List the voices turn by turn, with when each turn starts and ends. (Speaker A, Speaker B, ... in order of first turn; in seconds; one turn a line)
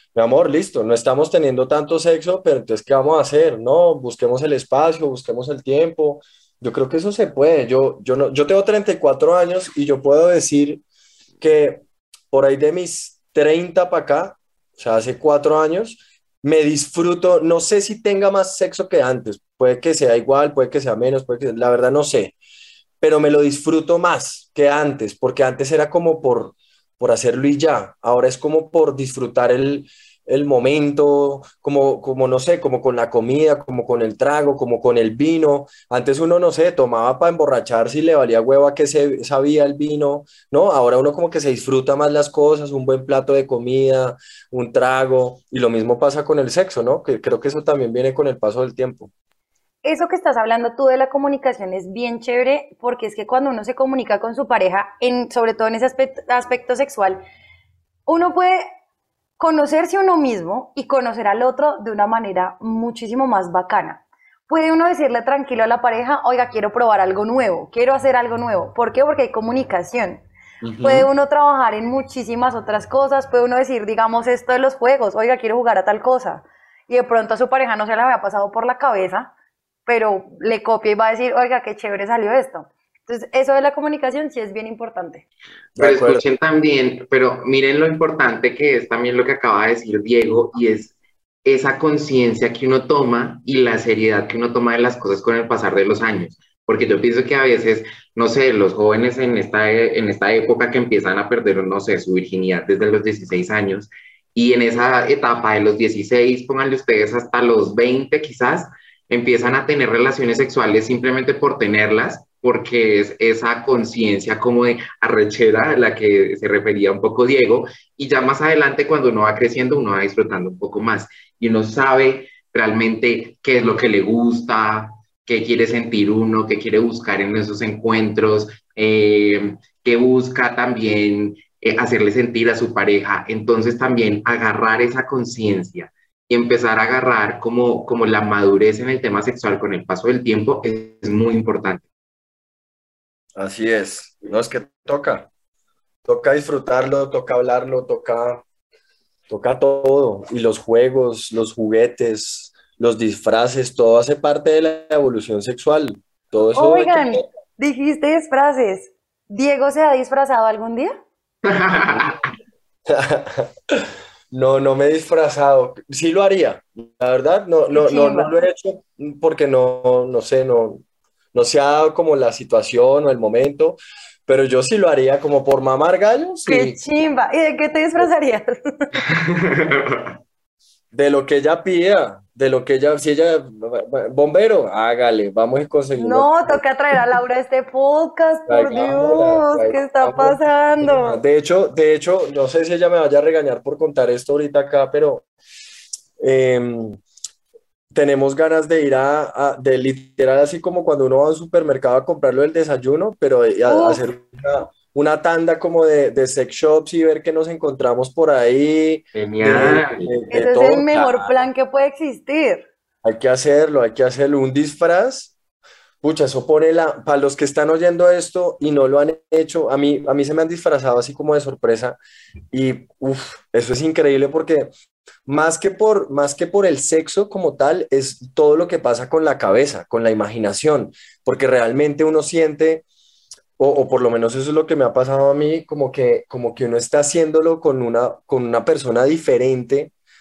Speaker A: 0.1-10.8
Speaker A: 11.4-22.3
Speaker A: 23.0-49.1
Speaker B: 49.8-57.2
Speaker B: 58.0-58.6
Speaker B: 59.4-70.2
Speaker A: 70.6-71.1
Speaker B: 70.8-79.3
Speaker B: 79.8-85.2
Speaker A: 85.8-86.2
Speaker C: 85.8-141.8
Speaker A: 143.3-145.3
Speaker A: 146.1-148.4
Speaker A: 149.3-157.2
Speaker B: 156.6-160.9
Speaker C: 161.4-162.2
Speaker A: 162.9-176.8
Speaker B: 167.7-168.3
Speaker B: 176.4-178.9
Speaker C: 179.0-180.2
Speaker A: 180.9-186.6
Speaker B: 185.9-191.2
Speaker A: 188.5-195.2
Speaker A: 196.2-197.0
Speaker A: 197.9-211.3
Speaker B: 203.7-204.0
Speaker C: 209.1-210.1
Speaker B: 210.3-212.7
Speaker A: 213.0-215.3
Speaker A: 216.0-222.0
Speaker A: 222.5-224.7
Speaker A: 225.2-232.8
Speaker A: 233.6-239.9